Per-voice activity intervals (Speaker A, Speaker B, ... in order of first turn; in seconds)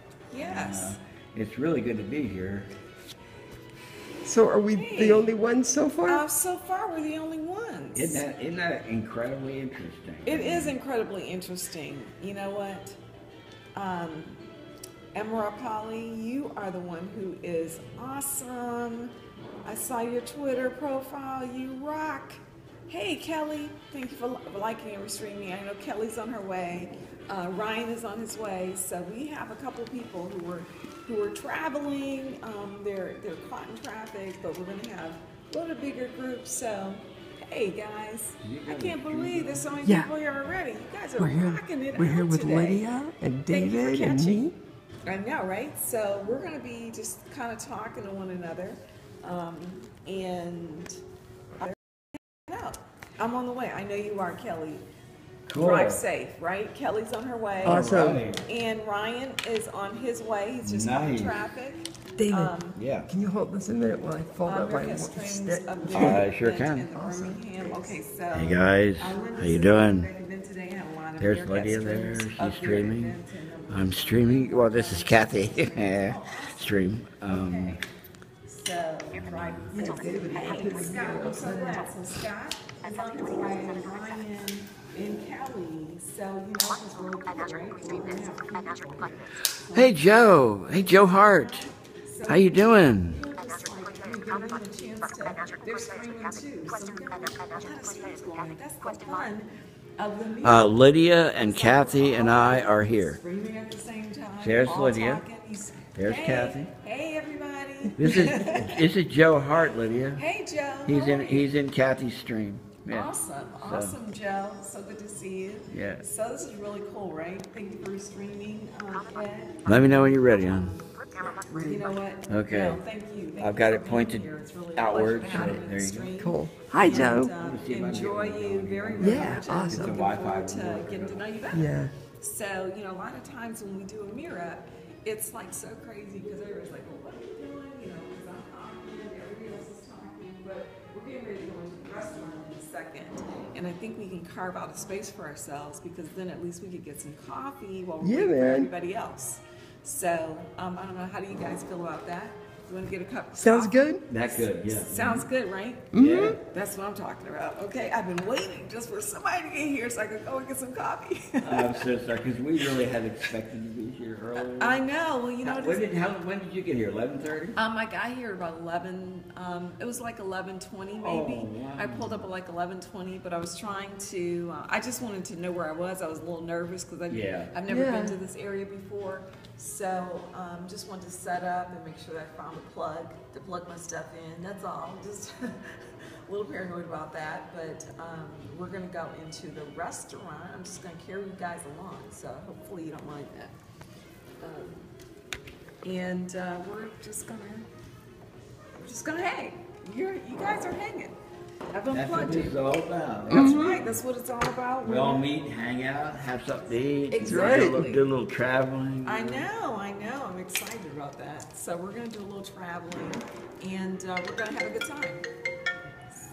Speaker A: 0.3-1.0, 4.7-5.3, 6.1-8.2, 10.3-13.0, 13.8-14.4, 15.1-19.1, 19.6-42.9, 43.5-44.5, 45.0-51.0, 51.6-54.8, 55.5-62.8, 64.4-77.8, 78.5-100.8, 101.3-108.9, 110.2-111.5, 112.9-120.8, 121.5-161.8, 164.5-165.9, 167.6-193.5, 194.4-194.9, 195.8-197.7, 198.8-201.2, 201.7-202.6, 203.3-205.3, 207.1-208.1, 209.1-215.3
Speaker B: 0.4-2.7, 7.9-10.8, 38.4-39.7, 55.5-56.0, 57.6-58.4, 60.6-61.4, 62.8-63.1, 65.9-66.9, 68.3-70.1, 71.2-73.2, 73.7-77.8, 79.2-79.6, 89.7-91.7, 92.2-93.2, 100.4-103.2, 104.4-105.2, 106.0-106.7, 108.0-110.2, 110.8-114.0, 115.7-116.0, 119.7-120.8, 122.3-122.8, 123.4-126.2, 126.8-131.3, 154.1-155.3, 155.9-156.4, 161.4-164.8, 165.4-167.6, 171.0-172.2, 177.1-177.5, 201.9-204.0, 204.8-209.4
Speaker C: 4.2-6.2, 39.8-40.1, 41.2-44.5, 57.6-58.2, 62.2-62.5, 63.1-66.3, 66.9-68.0, 79.7-81.9, 121.5-121.8, 126.2-127.3, 129.0-130.0, 131.5-131.9, 148.0-148.7, 153.4-154.0, 155.9-156.4, 177.7-178.2, 203.3-203.8, 207.2-207.8